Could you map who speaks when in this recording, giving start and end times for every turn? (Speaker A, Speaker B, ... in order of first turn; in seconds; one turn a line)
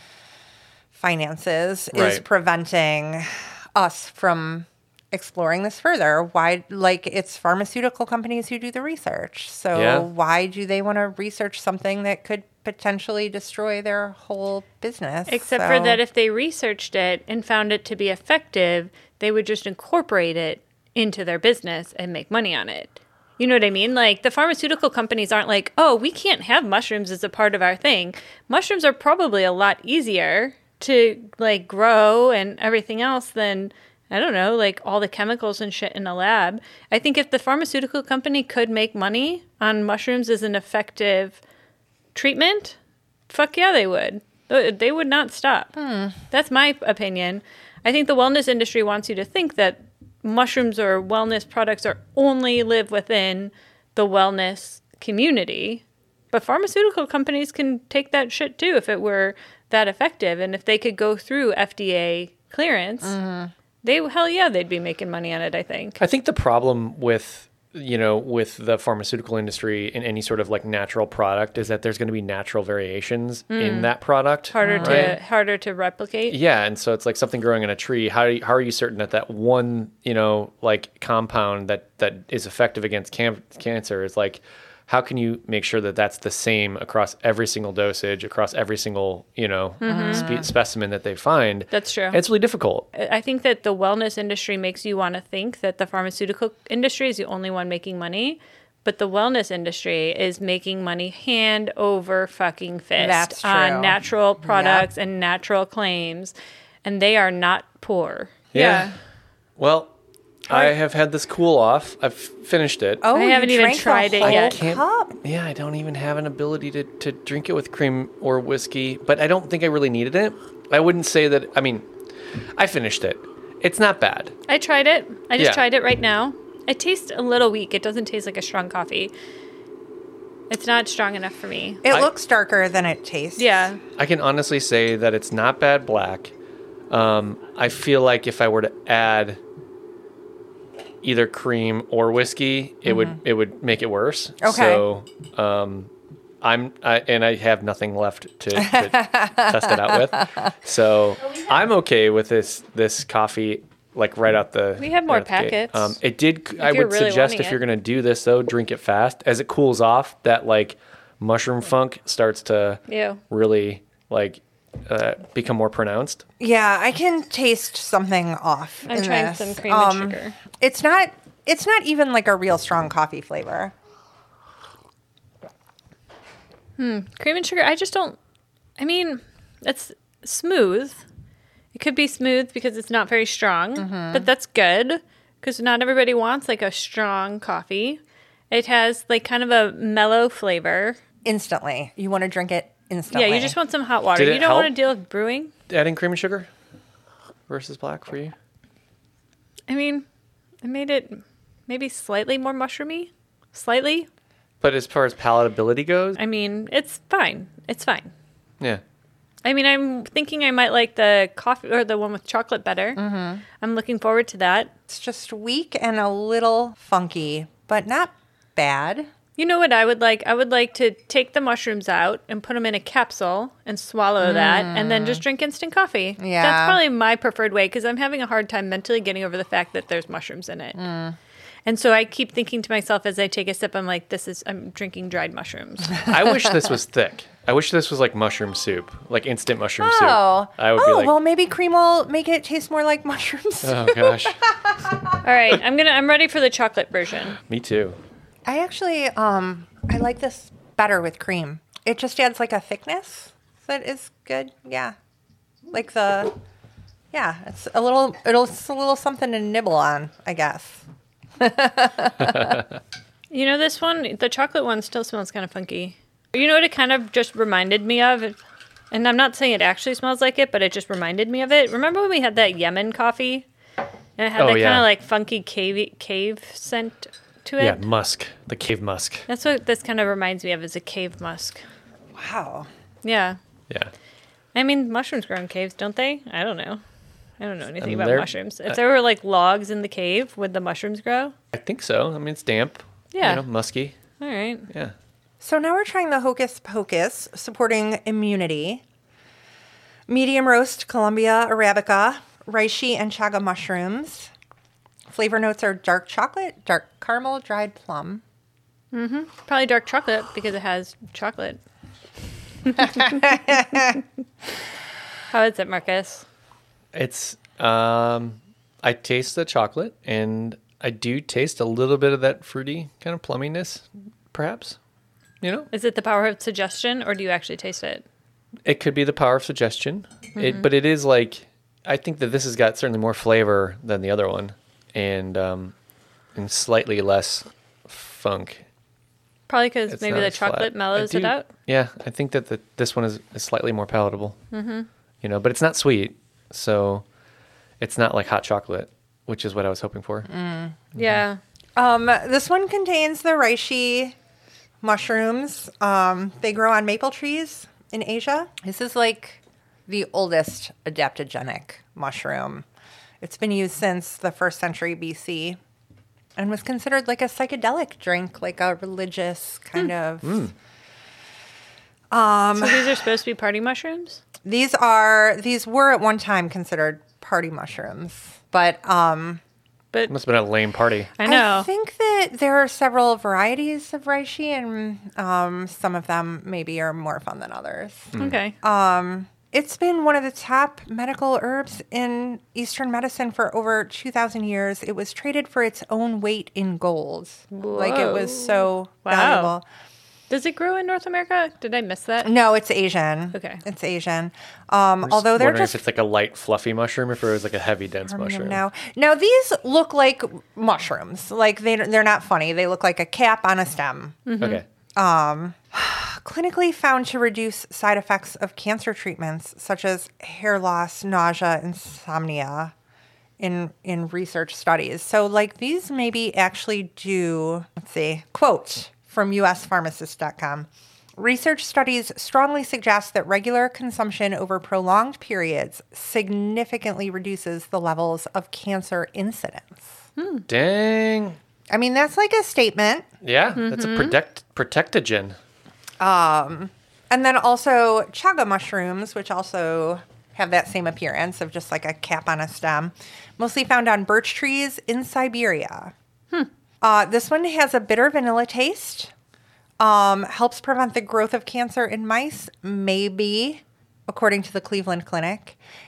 Speaker A: 0.9-16.0
Speaker B: 1.9-2.2
Speaker B: 9.7-10.1
Speaker C: 15.3-41.4
Speaker C: 42.1-42.8
Speaker C: 43.3-45.8
Speaker A: 45.8-46.2
Speaker C: 46.3-63.2
Speaker A: 63.0-63.5
Speaker C: 63.8-66.0
Speaker B: 66.0-75.2
Speaker C: 73.5-73.9
Speaker C: 74.5-76.4
Speaker A: 74.6-75.2
Speaker B: 76.3-92.9
Speaker C: 89.8-90.3
Speaker A: 89.9-90.5
Speaker C: 91.7-92.2
Speaker C: 92.9-109.0
Speaker A: 103.0-104.9
Speaker B: 108.5-108.9
Speaker B: 109.6-109.9
Speaker B: 110.5-113.0
Speaker A: 113.0-115.2
Speaker C: 113.1-114.6
Speaker B: 114.2-121.9
Speaker B: 122.6-124.3
Speaker C: 124.5-129.1
Speaker B: 125.4-125.6
Speaker C: 130.5-131.8
Speaker A: 131.8-133.7
Speaker C: 133.4-133.8
Speaker B: 134.0-136.3
Speaker B: 136.9-139.4
Speaker B: 141.0-145.9
Speaker A: 142.9-143.2
Speaker A: 144.4-144.8
Speaker B: 146.4-166.2
Speaker A: 148.6-150.5
Speaker C: 154.8-156.0
Speaker C: 156.6-157.6
Speaker C: 162.9-163.2
Speaker A: 166.4-173.7
Speaker C: 168.9-170.4
Speaker C: 176.8-178.2
Speaker C: 178.8-181.0
Speaker C: 181.7-188.0
Speaker A: 183.8-184.3
Speaker C: 188.5-191.0
Speaker A: 191.2-193.6
Speaker C: 193.1-195.5
Speaker B: 194.2-194.7
Speaker B: 195.7-196.5
Speaker B: 197.5-198.3
Speaker C: 199.7-200.1
Speaker C: 200.6-204.1
Speaker B: 204.6-206.2
Speaker C: 206.2-208.1
Speaker C: 209.4-213.0
Speaker A: 213.0-213.4
Speaker C: 213.6-214.7
Speaker A: 214.9-219.1
Speaker C: 219.4-230.8
Speaker A: 224.2-225.2
Speaker A: 226.2-226.8
Speaker A: 230.8-231.2
Speaker C: 231.7-236.0
Speaker B: 236.1-241.1
Speaker A: 239.8-245.2
Speaker B: 243.6-244.4
Speaker C: 245.2-247.4
Speaker B: 247.5-248.0
Speaker A: 248.5-254.9
Speaker A: 255.7-256.3
Speaker A: 257.1-260.8
Speaker A: 261.4-262.6
Speaker B: 262.3-262.6
Speaker C: 263.3-268.4
Speaker C: 268.9-273.5
Speaker C: 274.2-277.8
Speaker B: 274.4-274.9
Speaker B: 277.6-279.3
Speaker C: 279.3-281.6
Speaker A: 282.1-282.7
Speaker C: 283.0-283.4
Speaker C: 284.5-286.8
Speaker C: 287.4-291.3
Speaker B: 287.8-288.8
Speaker B: 291.5-293.9
Speaker C: 293.1-293.4
Speaker C: 294.2-294.7
Speaker A: 295.4-298.8
Speaker A: 300.1-304.3
Speaker A: 305.1-308.2
Speaker C: 308.9-311.6
Speaker C: 312.7-313.2
Speaker A: 312.8-314.0
Speaker C: 315.3-316.2
Speaker B: 316.9-324.8
Speaker B: 325.4-325.7
Speaker C: 325.7-328.1
Speaker B: 328.7-335.7
Speaker C: 330.4-330.7
Speaker B: 336.4-338.6
Speaker C: 339.5-341.5
Speaker B: 339.9-344.4
Speaker C: 344.5-344.9
Speaker B: 345.2-347.0
Speaker B: 347.8-350.3
Speaker A: 350.3-350.8
Speaker C: 350.9-351.4
Speaker B: 351.0-351.2
Speaker A: 351.8-354.2
Speaker A: 354.8-362.6
Speaker A: 363.2-365.6
Speaker A: 366.4-370.4
Speaker B: 370.2-370.5
Speaker A: 372.1-373.0
Speaker C: 372.6-374.2
Speaker A: 374.4-379.4
Speaker B: 380.1-381.1
Speaker C: 381.2-381.7
Speaker A: 381.2-399.6
Speaker C: 388.2-388.5
Speaker C: 397.5-399.5
Speaker C: 400.3-402.3
Speaker A: 402.2-405.8
Speaker C: 403.3-403.6
Speaker B: 405.1-408.6
Speaker A: 408.1-414.2
Speaker C: 414.3-414.6
Speaker B: 414.4-414.6
Speaker A: 415.0-422.7
Speaker A: 423.4-439.9
Speaker C: 440.2-440.4
Speaker B: 440.5-441.4
Speaker A: 441.7-443.1
Speaker B: 443.2-445.4
Speaker C: 443.6-444.1
Speaker A: 446.0-455.9
Speaker A: 456.8-459.1
Speaker A: 459.8-465.6